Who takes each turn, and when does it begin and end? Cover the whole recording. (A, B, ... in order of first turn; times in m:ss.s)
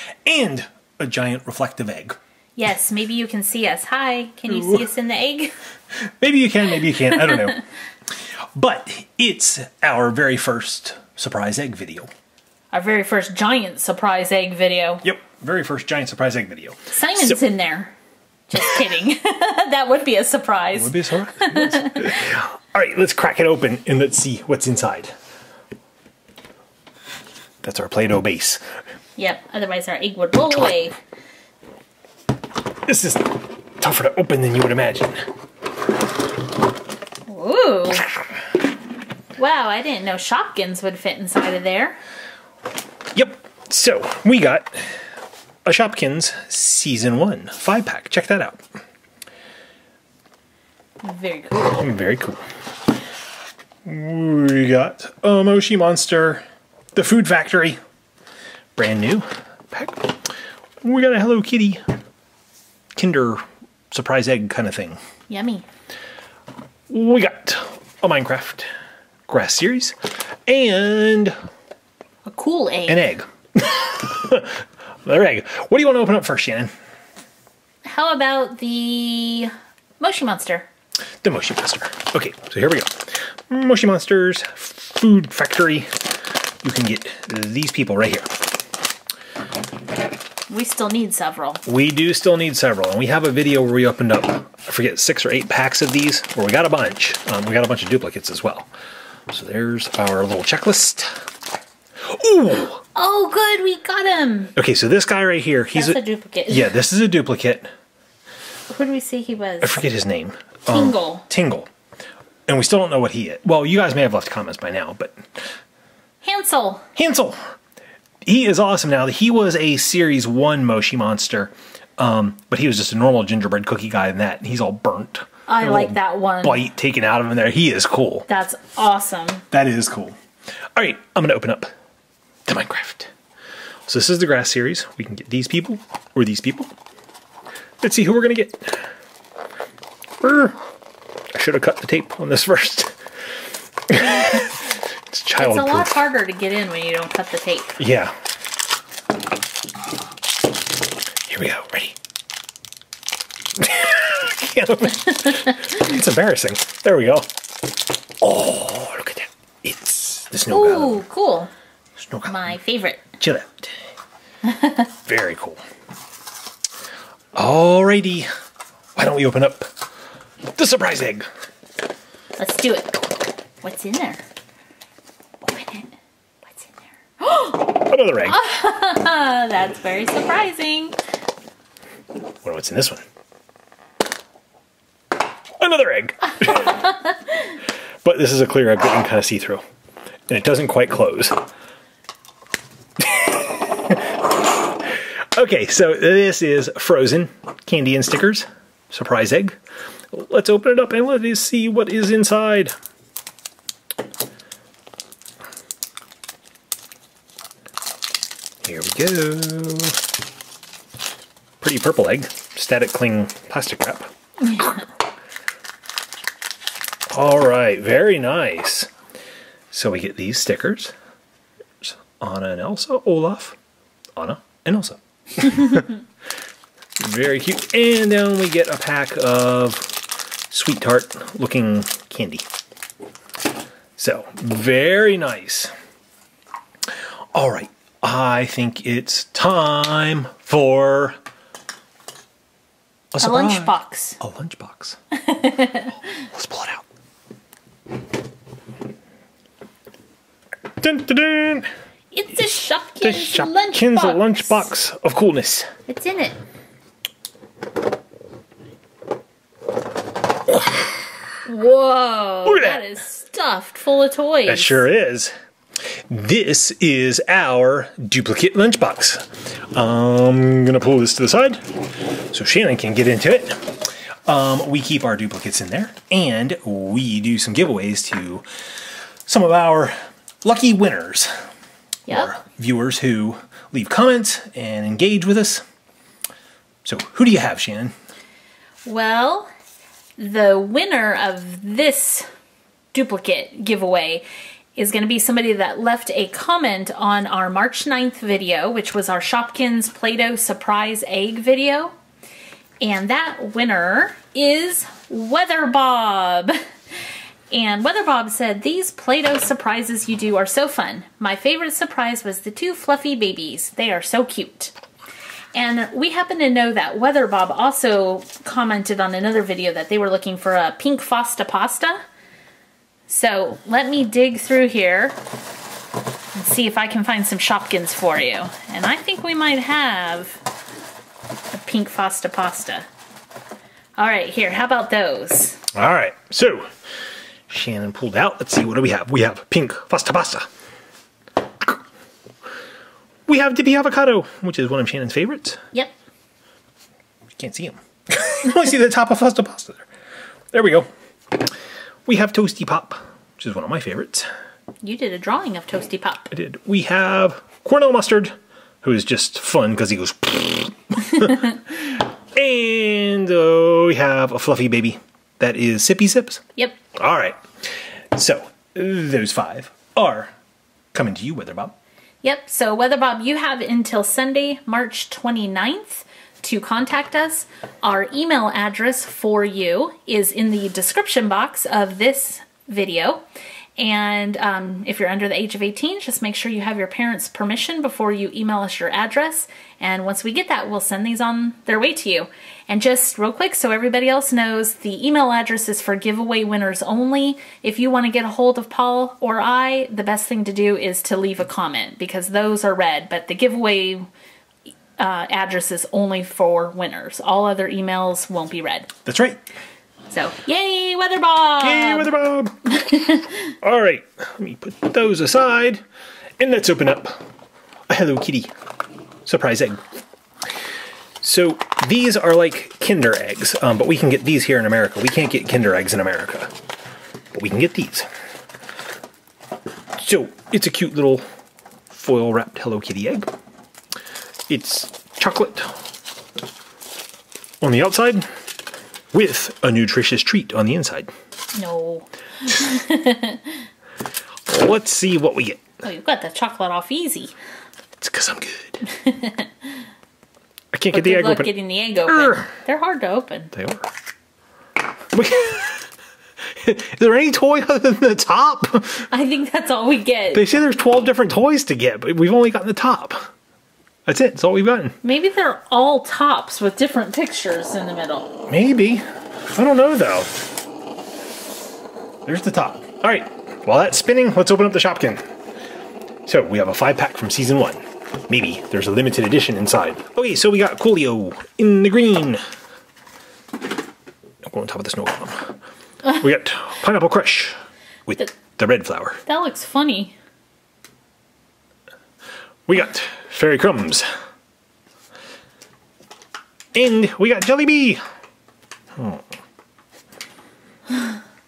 0:00.2-0:02.2 A
0:02.6-0:05.5 B
0:04.5-0:04.9 A
0:05.9-0:12.1 A
0:07.2-0:07.6 B
0:12.7-0:15.0 B
0:15.0-0:17.4 A
0:16.9-0:17.9 B
0:18.5-0:22.1 B
0:20.7-0:25.1 A
0:27.6-0:28.6 A
0:29.2-0:31.0 B
0:32.9-0:35.2 A
0:37.3-0:38.1 B
0:39.4-0:42.0 B
0:43.1-0:45.0 A
0:45.6-0:48.6 A
0:51.0-0:51.8 B
0:51.5-0:52.4 A
0:53.8-0:56.4 A
0:57.0-0:57.8 A
0:58.8-1:01.8 A
1:03.0-1:05.0 A
1:05.3-1:05.6 B
1:06.9-1:08.7 A
1:09.3-1:10.0 A
1:10.5-1:11.3 A
1:12.2-1:13.0 B
1:12.9-1:16.7 A
1:17.8-1:20.6 B
1:21.2-1:25.9 A
1:26.6-1:28.3 A
1:30.5-1:31.6 B
1:31.6-1:38.7 A
1:39.3-1:41.1 A
1:42.0-1:42.8 A
1:42.9-1:44.5 B
1:44.5-1:47.7 A
1:45.7-1:46.7 B
1:48.7-1:49.8 B
1:49.6-1:51.7 A
1:50.7-1:51.2 B
1:52.5-1:55.2 A
1:56.2-1:56.8 B
1:56.9-1:57.4 A
1:58.2-2:08.2 A
2:05.5-2:06.6 B
2:08.3-2:09.4 B
2:09.5-2:10.2 A
2:10.8-2:11.7 A
2:12.5-2:13.1 A
2:13.9-2:16.7 A
2:17.8-2:18.8 A
2:20.2-2:20.6 A
2:21.3-2:23.0 A
2:23.9-2:26.0 A
2:25.4-2:27.8 B
2:27.8-2:28.1 A
2:31.3-2:32.0 A
2:33.6-2:37.3 A
2:38.2-2:41.0 A
2:40.5-2:41.5 B
2:42.0-2:42.6 A
2:42.3-2:43.1 B
2:43.1-2:43.7 A
2:44.4-2:44.8 B
2:45.0-2:45.6 A
2:47.4-2:48.3 A
2:49.0-2:49.7 A
2:50.6-2:51.2 A
2:52.4-2:53.0 B
2:53.6-2:54.2 B
2:55.4-2:55.9 B
2:56.4-3:01.0 B
2:57.7-2:58.4 A
3:02.4-3:03.0 A
3:05.6-3:06.9 A
3:08.0-3:09.6 A
3:10.3-3:11.4 A
3:13.0-3:19.6 A
3:20.1-3:22.7 A
3:28.6-3:30.0 A
3:31.6-3:34.8 A
3:37.1-3:38.9 A
3:39.7-3:40.9 A
3:41.8-3:43.6 A
3:44.2-3:46.0 A
3:47.0-3:52.4 A
3:54.0-3:55.7 A
3:57.3-4:01.2 A
4:03.1-4:05.0 A
4:03.2-4:04.2 B
4:05.1-4:06.0 B
4:06.2-4:06.8 A
4:10.8-4:11.7 A
4:12.1-4:14.7 B
4:13.0-4:15.7 A
4:15.9-4:16.4 B
4:21.4-4:24.8 B
4:22.4-4:22.8 A
4:24.4-4:25.3 A
4:26.1-4:38.4 A
4:39.2-4:41.3 A
4:42.1-4:45.6 A
4:46.8-4:47.9 A
4:48.8-4:49.5 B
4:50.2-4:52.2 B
4:52.9-4:54.2 B
4:54.8-5:01.9 B
5:02.8-5:06.6 B
5:07.5-5:14.7 B
5:15.5-5:22.0 B
5:23.1-5:25.2 B
5:26.3-5:30.4 B
5:31.5-5:32.9 B
5:34.0-5:35.6 B
5:35.7-5:36.7 A
5:37.5-5:40.4 A
5:43.3-5:45.6 A
5:47.4-5:49.8 A
5:50.5-5:51.5 A
5:52.1-5:54.3 A
5:54.8-5:56.3 B
5:56.3-6:06.4 A
6:06.9-6:07.4 A
6:08.1-6:10.3 A
6:10.9-6:11.8 A
6:12.2-6:23.2 B
6:23.8-6:44.1 B
6:45.0-6:48.9 B
6:49.0-6:49.4 A
6:50.1-6:52.1 B
6:51.6-6:52.7 A
6:52.8-6:53.4 B
6:53.4-6:55.8 A
6:56.4-6:57.2 A
6:57.9-6:58.5 A
6:59.2-6:59.8 A
7:01.2-7:06.5 A
7:07.3-7:08.1 A
7:10.0-7:11.2 A
7:11.9-7:13.3 A
7:14.5-7:15.7 A
7:17.6-7:18.2 A
7:19.1-7:21.1 A
7:21.5-7:23.6 B
7:24.5-7:25.7 A
7:25.8-7:27.3 B
7:28.0-7:28.9 A
7:28.9-7:29.5 B
7:30.7-7:31.5 A
7:30.9-7:33.5 B
7:32.0-7:32.5 A
7:33.5-7:33.9 A
7:35.1-7:35.8 A
7:36.6-7:39.1 A
7:39.1-7:40.4 B
7:40.3-7:43.3 A
7:44.1-7:44.9 A
7:45.0-7:48.4 B
7:48.5-7:50.3 A
7:52.2-7:55.2 A
7:56.2-8:02.4 A
8:04.4-8:07.5 A
8:08.1-8:09.2 A
8:09.2-8:10.1 B
8:12.7-8:14.0 A
8:16.7-8:18.0 A
8:19.0-8:19.2 A